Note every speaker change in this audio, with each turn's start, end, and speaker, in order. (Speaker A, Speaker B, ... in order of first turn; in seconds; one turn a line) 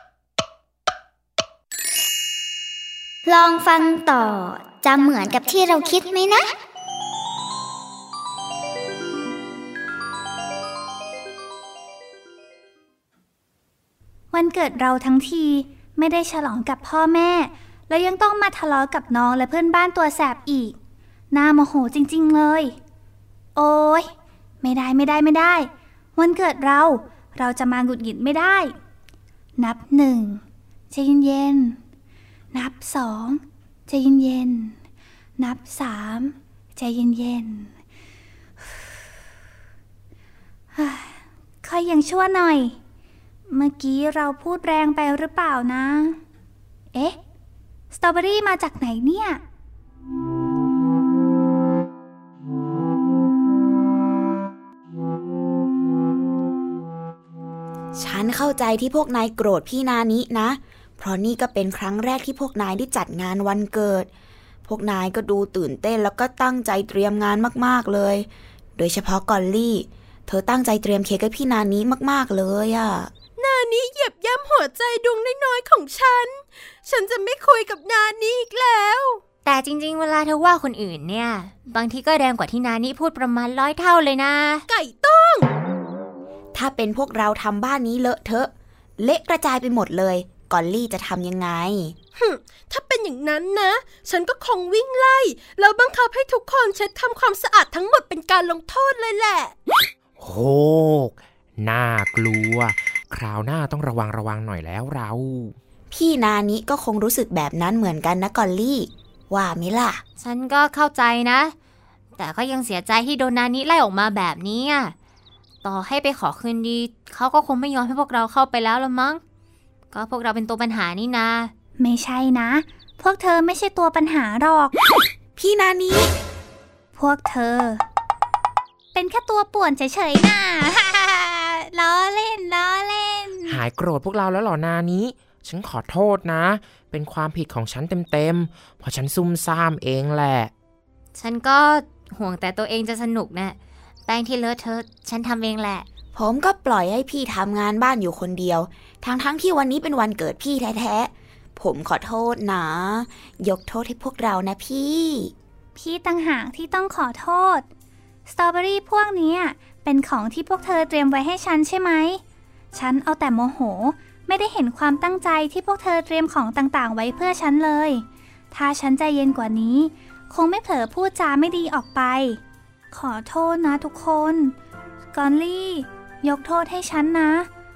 Speaker A: 3.2-6.5
Speaker B: 14.3-20.8
Speaker B: 21.3-22.8
Speaker B: 23.6-24.1
Speaker B: 24.6-28.7
Speaker B: 29.6-31.8
Speaker B: 32.5-34.8
Speaker B: 35.4-37.7
Speaker B: 40.7-42.8
Speaker B: 43.5-46.2
Speaker B: 47.9-49.4
Speaker C: 58.0-64.1
Speaker C: 64.7-73.1
Speaker D: 73.4-79.2
Speaker E: 79.4-84.6
Speaker D: 84.7-85.5
Speaker C: 86.5-92.0
Speaker D: 92.2-99.5
Speaker F: 100.2-105.5
Speaker C: 105.9-110.0
Speaker E: 110.2-111.5
Speaker E: 112.2-114.9
Speaker E: 115.6-119.2
Speaker E: 119.9-121.5
Speaker B: 121.8-124.7
Speaker C: 125.4-126.1
Speaker B: 126.9-127.8
Speaker B: 128.9-133.6
Speaker F: 133.5-140.5
Speaker E: 141.1-145.8
Speaker C: 146.1-155.3
Speaker B: 155.7-157.7
Speaker B: 158.2-162.2
Speaker B: 162.7-172.4
Speaker B: 172.9-174.5
Speaker B: 175.1-177.5